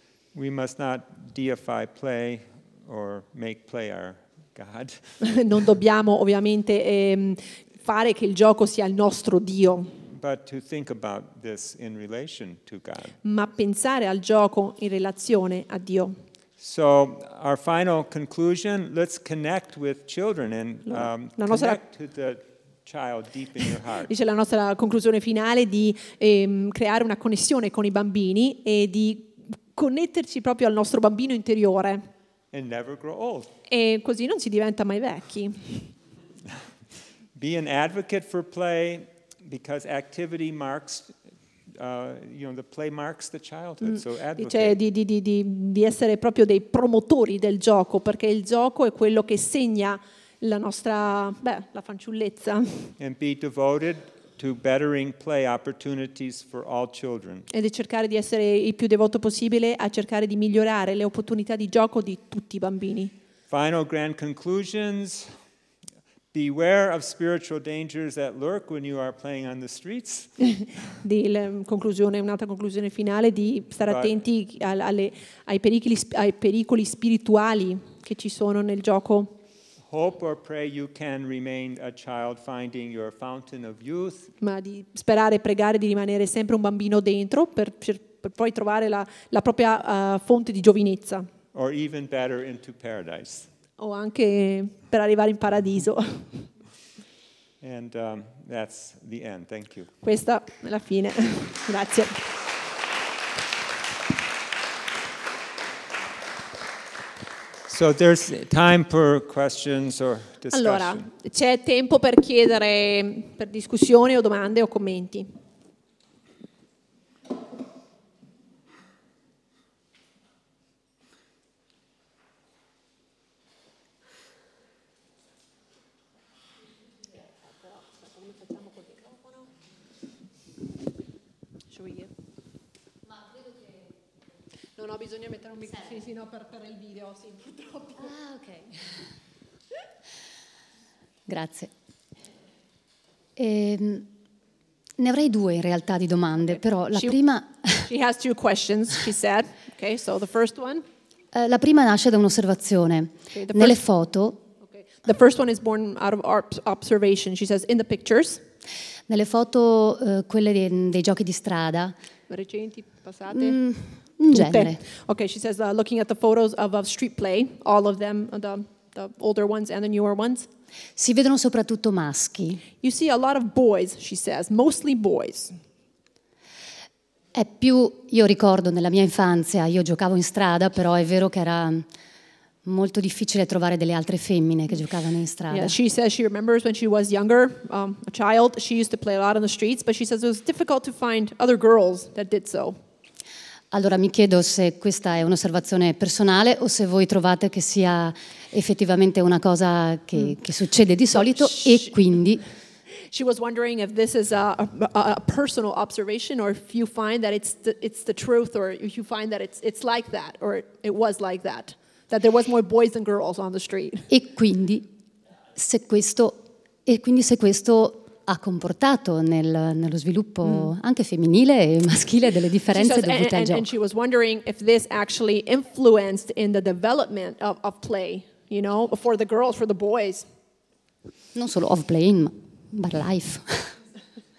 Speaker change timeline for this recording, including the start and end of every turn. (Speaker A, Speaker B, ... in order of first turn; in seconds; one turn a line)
Speaker A: 0.3-5.3
Speaker B: 5.2-9.9
Speaker A: 10.1-13.2
Speaker B: 13.2-16.2
Speaker A: 16.6-24.1
Speaker B: 20.9-21.8
Speaker B: 24.1-32.0
Speaker A: 32.5-33.5
Speaker B: 33.7-35.9
Speaker A: 37.3-44.8
Speaker B: 43.8-52.9
Speaker A: 53.0-57.5
Speaker B: 57.5-63.1
Speaker A: 63.5-65.3
Speaker A: 66.3-70.3
Speaker B: 71.0-79.3
Speaker A: 73.8-74.2
Speaker A: 79.8-84.3
Speaker B: 84.4-91.3
Speaker A: 91.5-93.5
Speaker B: 93.8-96.4
Speaker A: 97.6-99.9
Speaker B: 100.0-102.2
Speaker A: 107.7-111.1
Speaker B: 110.5-115.3
Speaker B: 127.6-129.4
Speaker B: 131.7-132.1
Speaker B: 134.8-138.1
Speaker C: 138.0-138.7
Speaker C: 141.2-141.7
Speaker C: 143.3-144.1
Speaker C: 145.0-147.9
Speaker B: 146.5-150.8
Speaker C: 151.3-154.4
Speaker B: 153.3-153.8
Speaker B: 154.6-158.4
Speaker C: 159.1-161.9
Speaker B: 162.3-170.5
Speaker C: 163.3-164.8
Speaker C: 170.9-172.6
Speaker B: 172.8-175.6
Speaker C: 177.3-181.9
Speaker C: 182.6-185.7
Speaker B: 185.5-192.8
Speaker C: 193.7-202.4
Speaker B: 201.1-202.0
Speaker B: 203.1-214.1
Speaker C: 214.1-214.8
Speaker C: 215.6-223.7
Speaker B: 220.4-220.7
Speaker B: 222.7-230.3
Speaker C: 231.3-233.8